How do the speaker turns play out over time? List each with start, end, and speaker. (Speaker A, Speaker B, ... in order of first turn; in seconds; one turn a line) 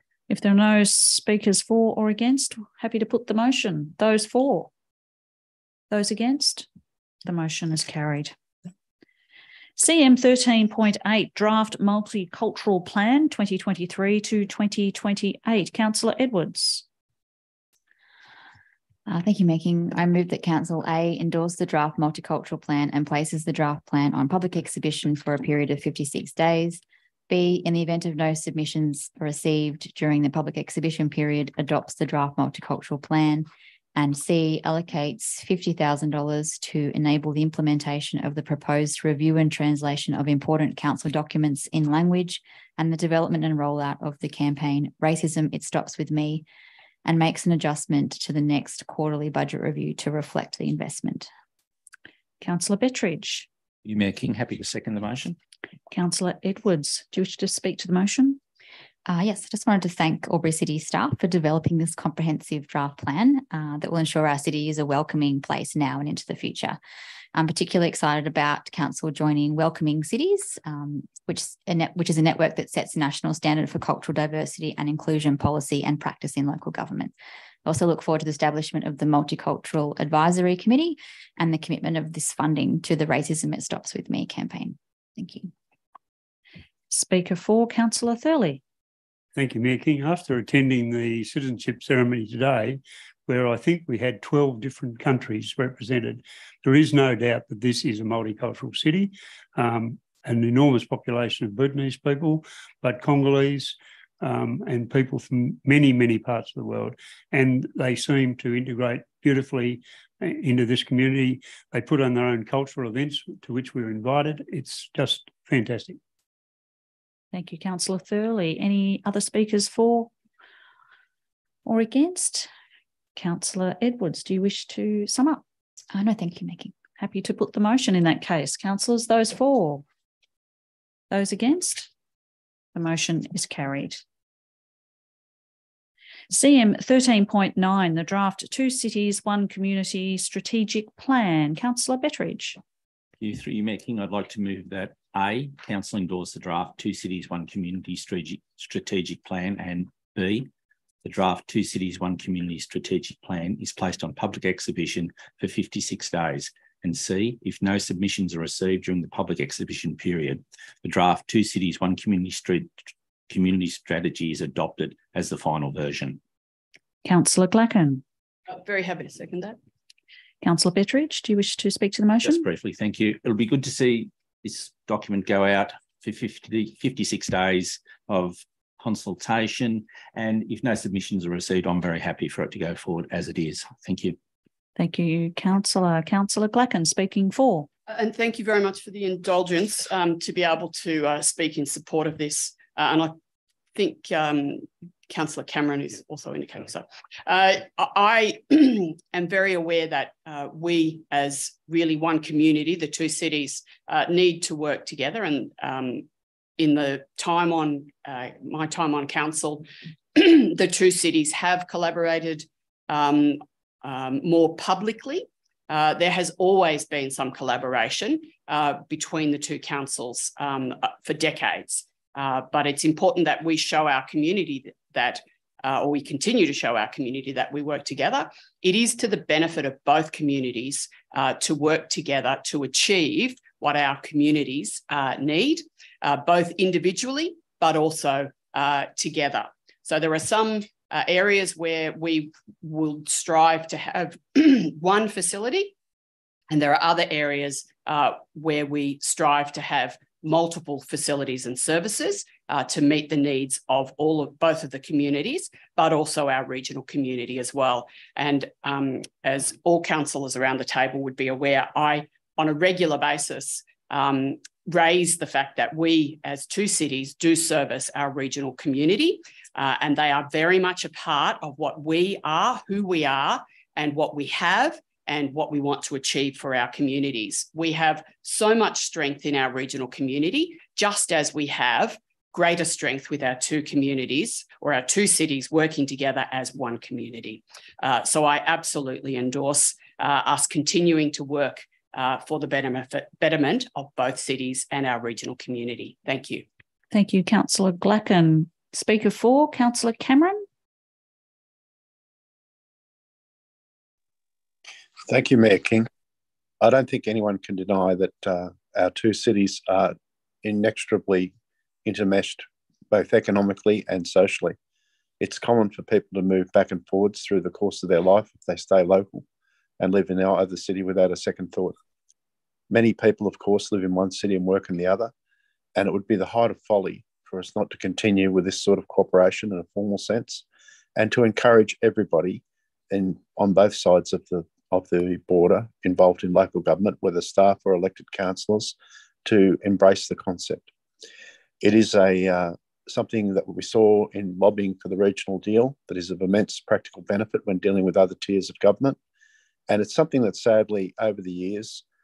Speaker A: 0.3-4.7
Speaker A: 5.9-6.7
Speaker A: 7.2-8.3
Speaker A: 9.8-16.8
Speaker B: 19.1-46.5
Speaker B: 47.0-51.3
Speaker A: 52.4-53.5
Speaker C: 53.8-55.4
Speaker A: 55.9-58.4
Speaker B: 59.1-66.8
Speaker B: 67.3-77.1
Speaker B: 77.7-85.5
Speaker A: 86.9-88.6
Speaker D: 89.3-116.0
Speaker A: 117.3-120.1
Speaker A: 121.7-122.5
Speaker A: 123.2-125.4
Speaker B: 125.9-126.7
Speaker A: 127.0-129.8
Speaker A: 131.1-131.9
Speaker A: 132.7-134.0
Speaker A: 136.3-142.6
Speaker C: 143.2-150.5
Speaker C: 151.0-166.2
Speaker A: 167.1-168.0
Speaker E: 168.5-169.6
Speaker A: 170.4-172.4
Speaker C: 172.2-184.2
Speaker A: 184.8-187.7
Speaker E: 187.9-193.2
Speaker E: 193.8-206.1
Speaker E: 206.6-245.7
Speaker E: 246.5-296.4
Speaker A: 296.9-300.4
Speaker F: 305.1-305.9
Speaker F: 306.6-311.3
Speaker F: 311.8-314.6
Speaker F: 315.2-319.2
Speaker F: 319.8-321.8
Speaker F: 322.7-325.1
Speaker F: 325.8-330.4
Speaker F: 331.0-340.7
Speaker F: 341.6-349.0
Speaker F: 349.7-351.8